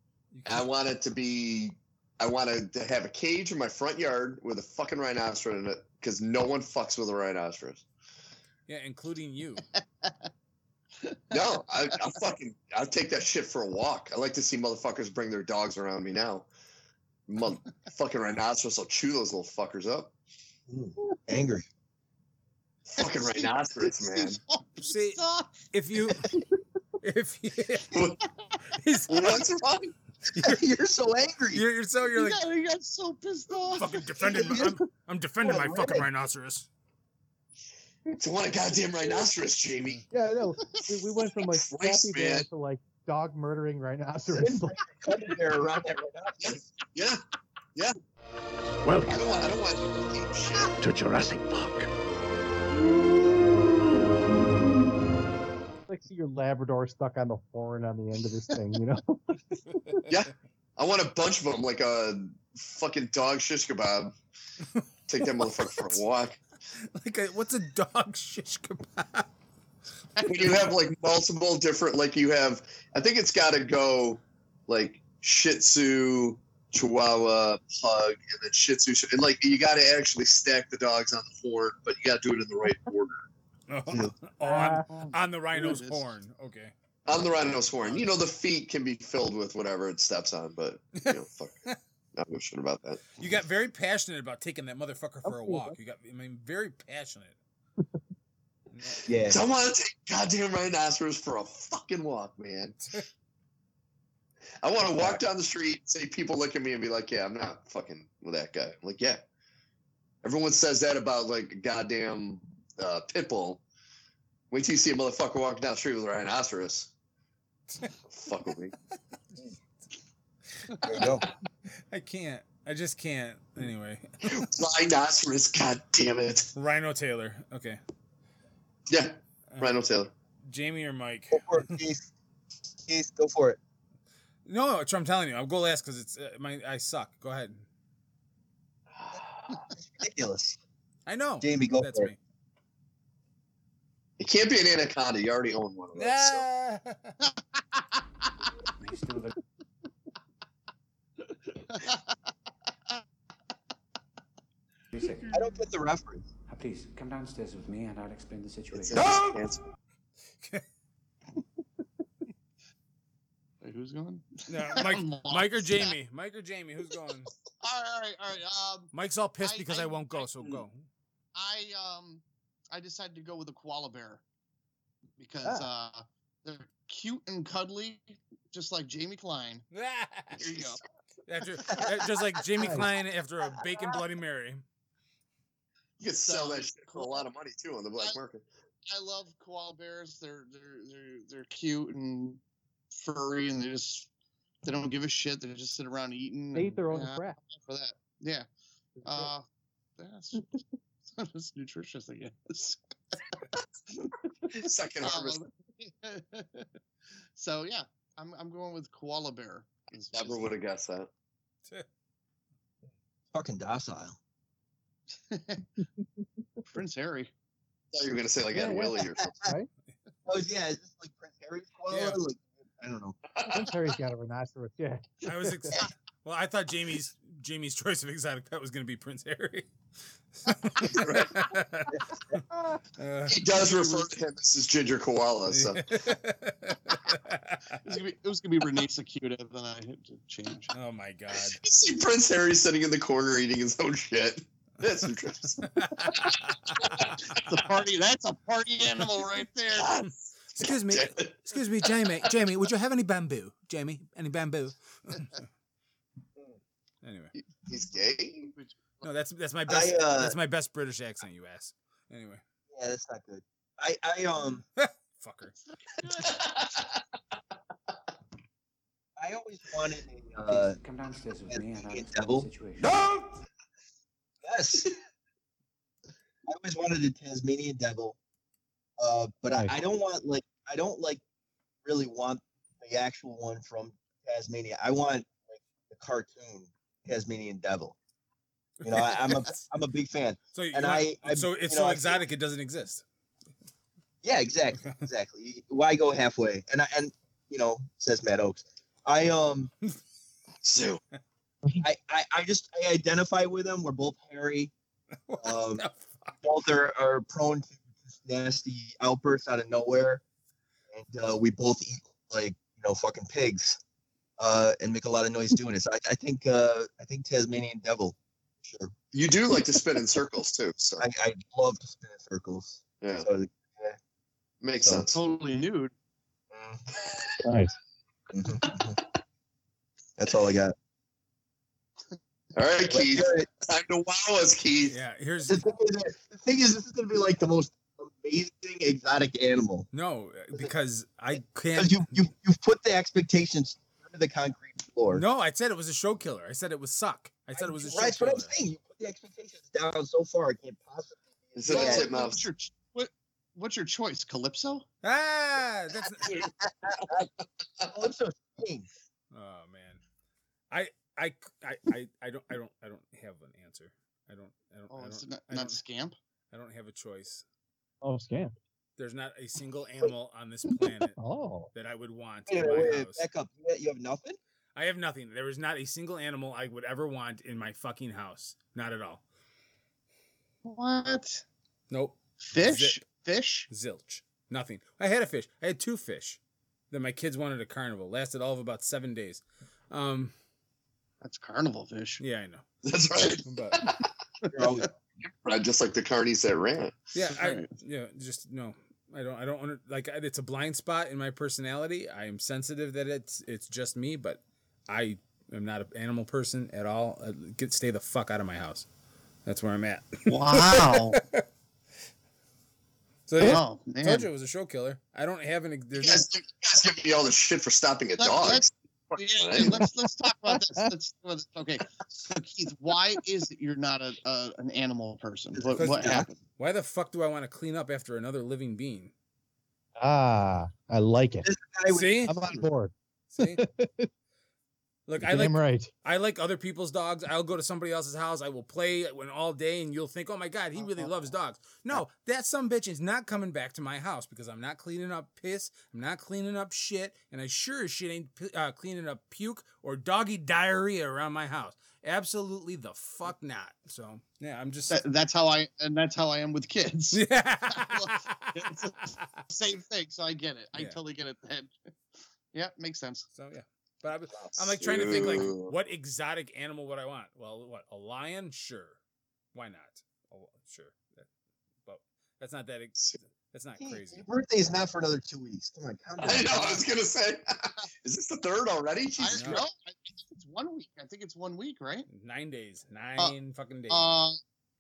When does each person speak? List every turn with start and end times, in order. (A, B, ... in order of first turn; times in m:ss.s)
0:00.3-0:00.7 A
0:00.5-0:07.8 B
0:08.7-0:09.7 A
0:09.7-0:10.3 C
0:11.0-0:11.5 C
0:11.3-0:16.5 B
0:17.3-0:20.1 B
0:20.7-0:21.7 D
0:22.9-0:24.4 B
0:23.0-0:25.7 C
0:24.8-0:26.3 A
0:27.0-0:28.0 A
0:27.9-0:28.2 B
0:28.7-0:29.5 A
0:29.1-0:29.9 B
0:30.3-0:30.6 A
0:30.3-0:31.6 D
0:31.5-0:32.4 A
0:32.1-0:34.6 C
0:33.7-0:36.7 A
0:34.3-0:34.8 D
0:35.4-0:36.1 D
0:38.2-0:40.0 B
0:40.1-0:44.8 E
0:41.5-0:42.5 B
0:44.3-0:46.6 D
0:46.4-0:47.2 B
0:49.0-0:50.8 B
0:55.9-1:00.0 E
1:00.1-1:04.2 B
1:05.1-1:06.4 B
1:06.9-1:09.3 A
1:10.2-1:10.5 C
1:10.2-1:23.3 B
1:23.7-1:28.1 A
1:23.9-1:24.1 D
1:24.4-1:25.2 E
1:24.9-1:26.1 C
1:27.1-1:31.6 B
1:31.0-1:31.8 A
1:32.2-1:33.1 B
1:33.2-1:37.4 A
1:35.3-1:35.7 E
1:38.7-1:39.1 A
1:39.1-1:39.4 D
1:39.3-1:42.8 B
1:44.6-1:49.2 B
1:44.8-1:45.2 D
1:50.2-1:53.6 B
1:54.5-1:56.9 B
1:58.1-1:58.8 B
2:00.8-2:01.3 D
2:01.9-2:04.5 A
2:04.2-2:06.5 B
2:06.6-2:07.8 A
2:08.9-2:10.1 B
2:10.5-2:11.8 A
2:11.3-2:12.1 D
2:12.9-2:13.6 D
2:14.5-2:17.6 A
2:19.0-2:19.6 B
2:19.8-2:20.6 D
2:21.1-2:22.2 A
2:21.4-2:22.1 D
2:24.2-2:26.4 B
2:26.0-2:27.2 A
2:27.2-2:28.0 C
2:28.8-2:29.4 F
2:31.6-2:32.2 C
2:34.9-2:35.4 F
2:35.0-2:35.4 C
2:35.3-2:36.2 D
2:36.5-2:39.2 F
2:38.7-2:39.6 B
2:43.6-2:45.9 C
2:44.5-2:47.3 A
2:47.6-2:50.5 C
2:48.9-2:50.8 A
2:51.4-2:54.2 C
2:55.2-2:59.6 C
2:59.7-3:00.7 A
3:00.4-3:00.8 C
3:01.3-3:04.6 A
3:02.6-3:02.9 E
3:06.0-3:08.5 B
3:06.3-3:07.2 C
3:08.9-3:12.4 C
3:12.9-3:14.1 C
3:14.6-3:18.5 C
3:16.6-3:17.4 E
3:19.0-3:19.3 E
3:19.0-3:19.4 C
3:20.0-3:20.5 C
3:21.2-3:22.8 C
3:24.5-3:25.4 B
3:25.0-3:26.7 C
3:27.4-3:30.6 C
3:30.1-3:31.1 B
3:33.3-3:34.2 D
3:35.3-3:35.7 C
3:36.7-3:37.3 C
3:37.9-3:39.5 B
3:38.5-3:39.7 E
3:40.3-3:43.2 D
3:41.9-3:42.2 A
3:43.4-3:43.7 B
3:43.5-3:45.8 E
3:45.2-3:49.7 A
3:50.4-3:52.4 A
3:50.8-3:51.5 B
3:53.0-3:53.6 A
3:53.3-3:55.8 B
3:53.7-3:54.0 C
3:55.5-3:57.9 A
3:57.8-4:00.7 C
4:00.7-4:01.6 A
4:01.4-4:07.3 B
4:05.6-4:07.3 A
4:07.4-4:10.0 C
4:09.7-4:11.9 B
4:10.5-4:15.4 A
4:17.0-4:17.3 A
4:17.4-4:18.5 B
4:18.5-4:19.1 C
4:19.0-4:22.4 A
4:19.7-4:20.4 D
4:22.7-4:24.6 D
4:24.8-4:25.6 A
4:26.0-4:26.3 C
4:26.0-4:27.0 B
4:29.2-4:30.8 D
4:30.5-4:33.2 F
4:31.5-4:32.5 D
4:34.4-4:34.9 D
4:36.5-4:38.2 D
4:39.0-4:41.2 D
4:41.8-4:48.0 D
4:48.8-4:49.6 A
4:48.8-4:52.2 D
4:50.5-4:53.0 A
4:54.2-4:59.7 D
4:54.8-4:55.0 A
5:00.6-5:01.0 B
5:01.8-5:04.7 D
5:05.3-5:06.4 A
5:05.4-5:05.9 D
5:06.4-5:10.2 D
5:10.9-5:13.8 D
5:14.4-5:18.9 D
5:19.1-5:21.0 B
5:21.0-5:24.0 D
5:23.0-5:23.3 B
5:24.6-5:25.2 B
5:24.8-5:25.1 D
5:25.1-5:25.9 C
5:26.5-5:26.8 D
5:27.1-5:27.3 B
5:27.4-5:27.7 E
5:28.3-5:29.0 D
5:30.2-5:30.8 D
5:32.6-5:35.0 B
5:32.9-5:33.5 D
5:34.9-5:35.6 A
5:35.4-5:39.9 D
5:39.9-5:42.3 A
5:41.4-5:45.2 D
5:45.1-5:48.5 A
5:47.6-5:52.1 D
5:51.6-5:52.5 B
5:51.7-5:54.8 C
5:55.0-5:56.3 A
5:56.2-5:57.9 B
5:57.9-5:58.9 D
5:59.3-6:00.0 A
6:00.7-6:05.8 A
6:04.9-6:06.2 C
6:06.5-6:07.4 A
6:08.0-6:08.5 E
6:09.0-6:11.2 A
6:11.2-6:11.7 E
6:11.7-6:13.2 A
6:12.5-6:14.4 D
6:14.8-6:19.2 A
6:20.6-6:21.4 C
6:21.9-6:23.0 A
6:22.5-6:23.7 C
6:23.7-6:26.4 A
6:26.9-6:30.3 A
6:31.2-6:32.2 C
6:32.2-6:32.6 A
6:32.8-6:34.1 B
6:33.4-6:33.8 A
6:34.5-6:34.9 D
6:35.2-6:37.0 B
6:37.1-6:48.9 A
6:37.3-6:37.7 C
6:49.5-6:51.4 A
6:50.3-6:51.2 C
6:53.3-6:56.2 A
6:53.4-6:54.3 C
6:56.0-6:59.8 B
6:58.2-7:06.4 C
7:00.5-7:00.9 E
7:05.7-7:09.1 A
7:05.8-7:06.2 D
7:10.0-7:11.5 E
7:11.4-7:12.7 D
7:11.9-7:12.4 A
7:12.3-7:14.1 E
7:13.3-7:13.6 A
7:15.1-7:35.0 A
7:15.2-7:15.9 E
7:34.9-7:41.8 C
7:37.1-7:39.4 A
7:42.5-7:43.3 C
7:43.4-7:49.0 A
7:44.4-7:45.7 B
7:49.5-7:51.3 A
7:51.9-7:54.2 A
7:53.8-7:56.8 D
7:56.2-7:59.6 B
7:59.2-8:02.1 C
7:59.3-7:59.6 A
8:02.1-8:04.2 A
8:03.9-8:04.4 C